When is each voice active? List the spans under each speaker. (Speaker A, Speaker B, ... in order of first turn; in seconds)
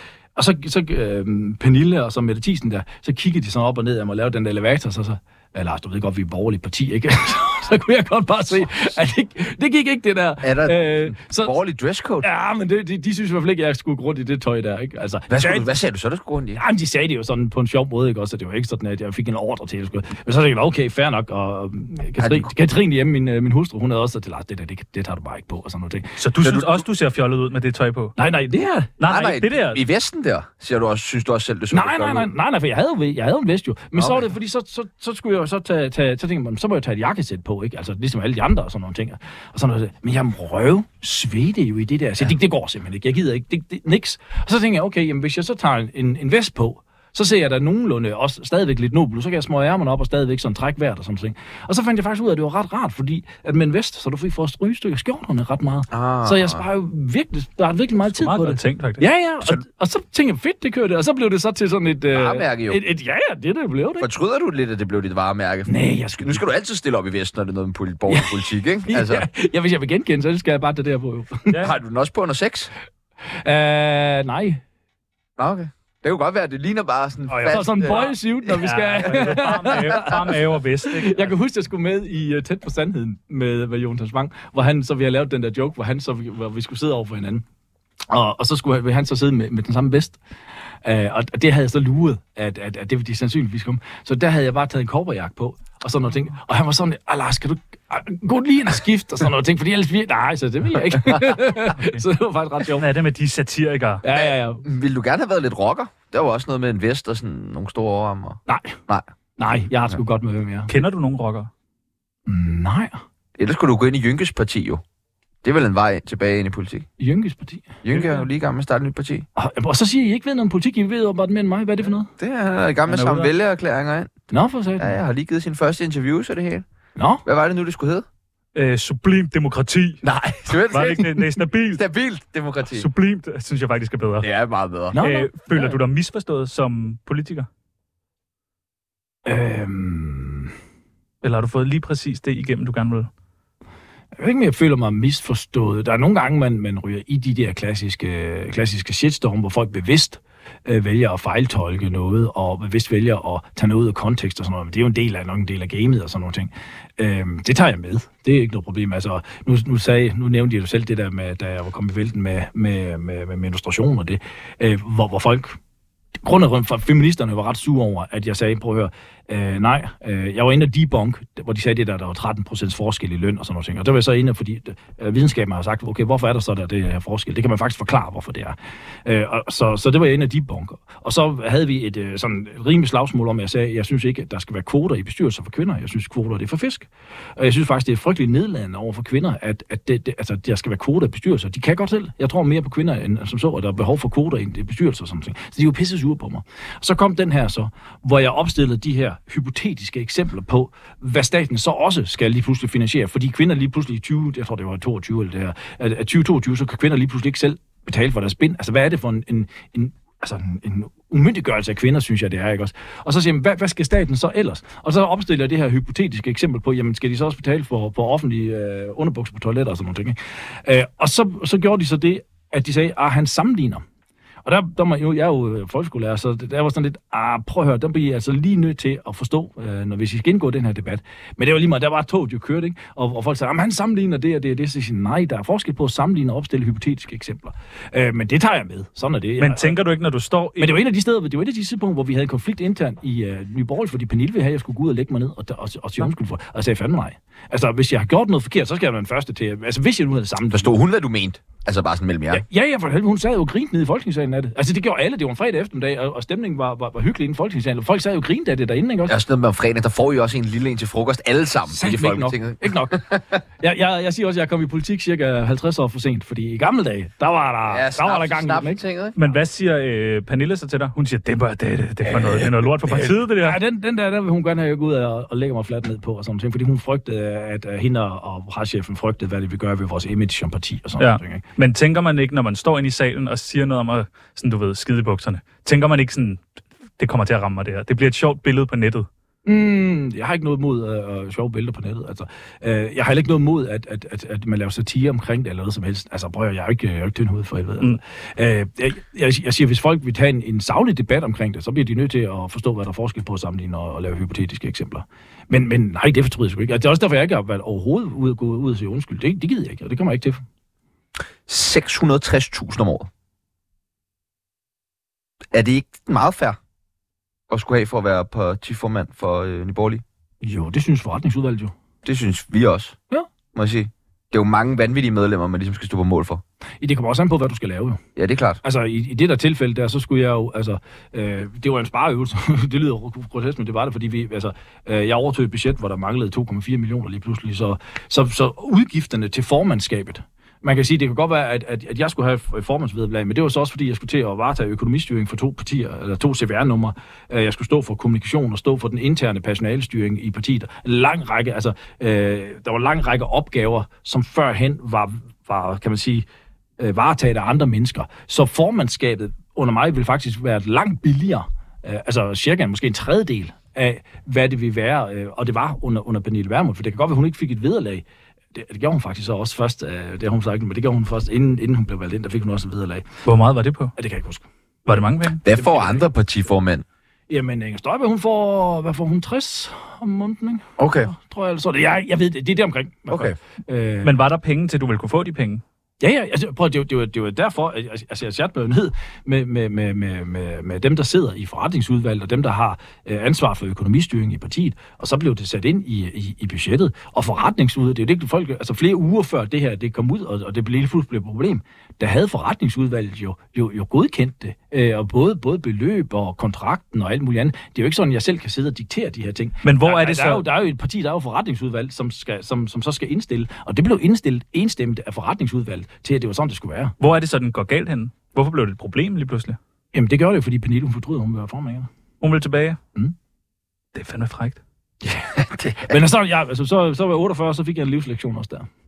Speaker A: 0.4-11.6, 12.2-15.7, 16.6-26.2, 28.2-28.9, 31.7-64.1, 65.7-66.5, 68.1-71.6, 73.4-74.6, 77.4-80.3, 80.9-87.4, 88.1-90.2, 90.8-102.9, 104.0-104.6, 108.5-108.8, 109.4-110.7, 112.3-113.0, 117.0-118.1, 119.4-122.1, 124.3-125.0, 127.0-127.2, 134.9-135.8, 139.3-140.5, 144.2-165.6, 166.2-223.8, 224.4-239.8, 240.6-250.8, 252.3-259.2, 261.7-268.8, 273.3-281.4, 289.5-310.4, 320.4-321.7, 326.8-328.0, 328.6-356.2, 356.8-373.1, 374.0-374.5, 375.5-376.1, 377.3-384.1, 386.0-416.9, 419.9-421.9, 425.8-428.7
Speaker B: 10.4-12.3, 15.3-16.6, 22.2-22.5, 26.4-26.8, 29.1-32.3, 34.0-34.2, 55.9-56.6, 62.1-62.8, 64.0-69.3, 71.6-72.7, 75.4-78.2, 104.2-109.1, 113.4-114.8, 115.4-116.9, 117.8-119.3, 122.2-124.1, 124.8-126.7, 127.2-128.1, 130.0-132.9, 134.2-135.0, 250.5-252.4, 259.1-263.4, 267.7-269.3, 311.5-313.1, 315.5-316.6, 317.5-320.0, 322.0-323.0, 323.5-326.4, 328.2-328.6, 375.4-376.9, 380.8-381.1, 383.1-383.4, 425.1-426.0
Speaker C: 26.2-28.1, 29.0-29.8, 58.2-59.6, 77.3-81.4, 101.8-102.0, 102.7-104.0, 110.7-111.5, 122.9-123.3, 128.6-131.8, 132.7-134.3, 135.0-137.5, 141.2-143.1, 239.4-240.8, 269.2-273.6, 281.0-286.4, 287.0-289.1, 373.2-373.9, 374.9-375.4, 384.0-385.6, 409.6-410.5, 417.0-419.6, 422.2-422.8, 423.9-424.6